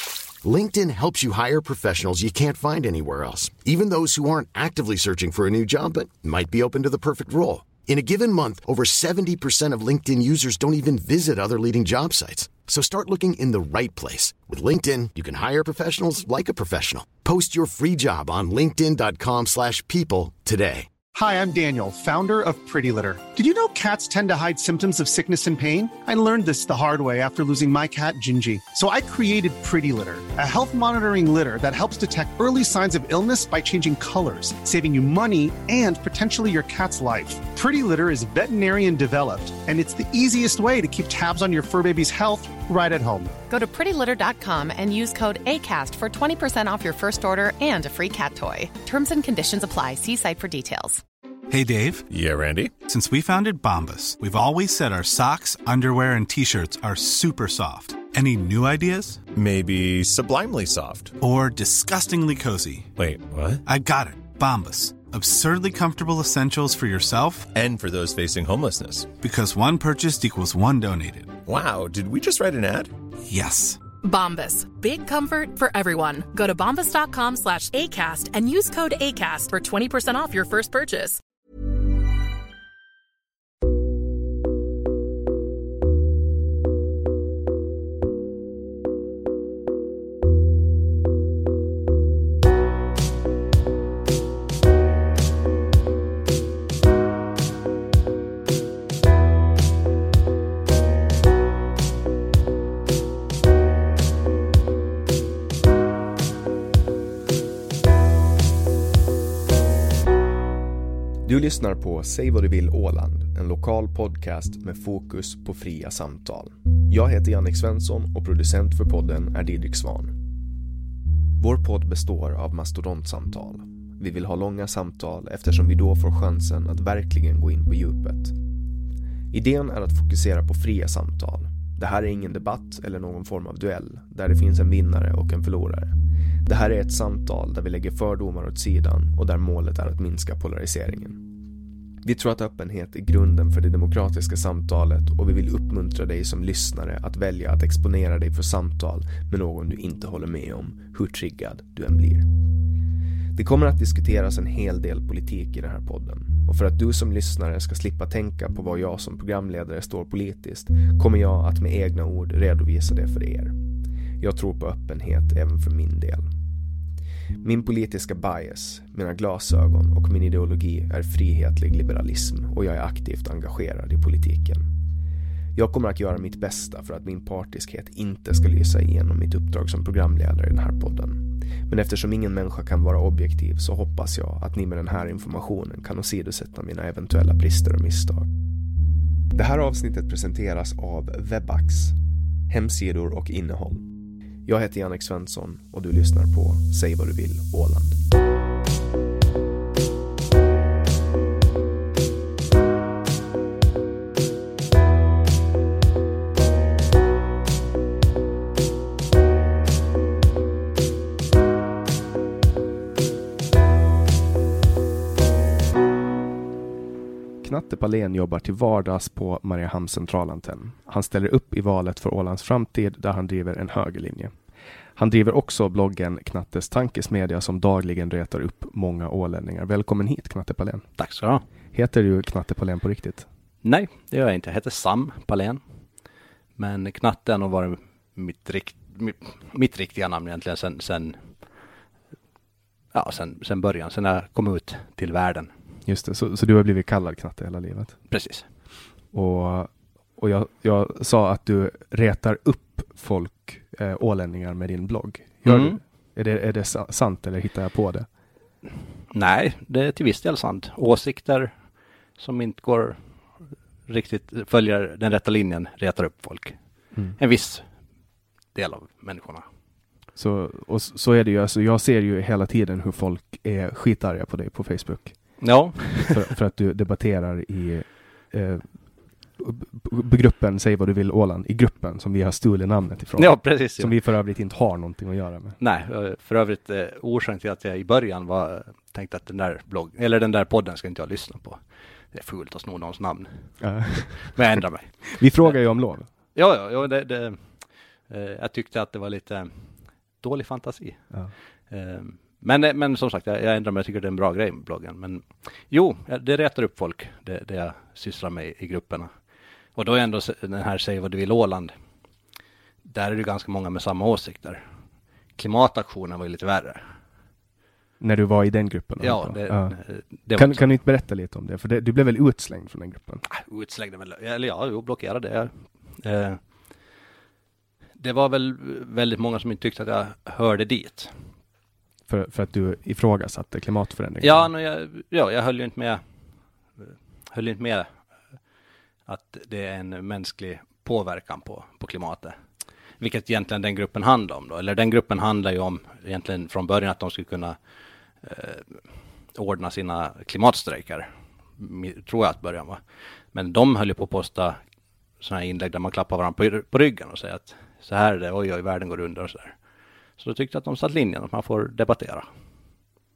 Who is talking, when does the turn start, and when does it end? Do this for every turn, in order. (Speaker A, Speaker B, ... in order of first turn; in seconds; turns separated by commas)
Speaker A: 0.4-20.9, Speaker B: 21.1-43.3, Speaker C: 43.5-51.0, Speaker D: 51.5-52.1, Speaker E: 52.1-52.7, Speaker D: 52.9-59.2, Speaker E: 59.3-61.1, Speaker D: 61.2-62.9, Speaker E: 63.0-63.6, Speaker D: 63.7-67.5, Speaker E: 67.5-69.1, Speaker D: 69.2-71.4, Speaker E: 71.5-72.9, Speaker D: 73.3-73.8, Speaker F: 74.0-81.2, Speaker G: 111.2-120.2, Speaker G: 121.4-128.4, Speaker G: 129.3-141.3, Speaker G: 142.0-152.5, Speaker G: 153.3-163.6, Speaker G: 164.2-166.3, Speaker G: 167.4-174.7, Speaker G: 175.6-188.3, Speaker G: 189.3-192.0, Speaker G: 192.5-193.9, Speaker G: 194.4-198.0, Speaker G: 217.4-224.4, Speaker G: 224.9-230.8, Speaker H: 231.0-231.4, Speaker G: 231.7-233.3, Speaker H: 233.6-235.6, Speaker H: 236.6-241.3, Speaker H: 242.9-245.5, Speaker G: 245.8-248.0, Speaker H: 248.1-248.4, Speaker G: 249.1-258.1, Speaker H: 255.4-255.8, Speaker H: 259.1-261.6, Speaker H: 262.2-263.0, Speaker H: 263.9-266.6, Speaker H: 267.1-267.6, Speaker H: 268.5-269.4, Speaker G: 270.1-278.8, Speaker H: 275.4-276.1, Speaker G: 279.4-285.6, Speaker H: 283.1-283.9, Speaker H: 285.6-293.6, Speaker G: 293.6-294.4, Speaker H: 294.2-295.6, Speaker G: 295.1-296.1, Speaker H: 296.3-301.1, Speaker H: 301.7-309.1, Speaker H: 309.8-311.7, Speaker H: 312.8-314.6, Speaker H: 315.4-316.9, Speaker G: 318.0-319.8, Speaker H: 319.0-320.7, Speaker G: 320.3-323.2, Speaker H: 323.2-326.4, Speaker H: 328.0-331.1, Speaker G: 332.1-334.5, Speaker H: 334.2-336.0, Speaker H: 336.8-337.9, Speaker H: 339.1-342.4, Speaker H: 343.0-347.6, Speaker H: 348.2-348.8, Speaker H: 349.3-352.8, Speaker H: 353.3-354.6, Speaker H: 355.2-359.6, Speaker H: 360.2-362.3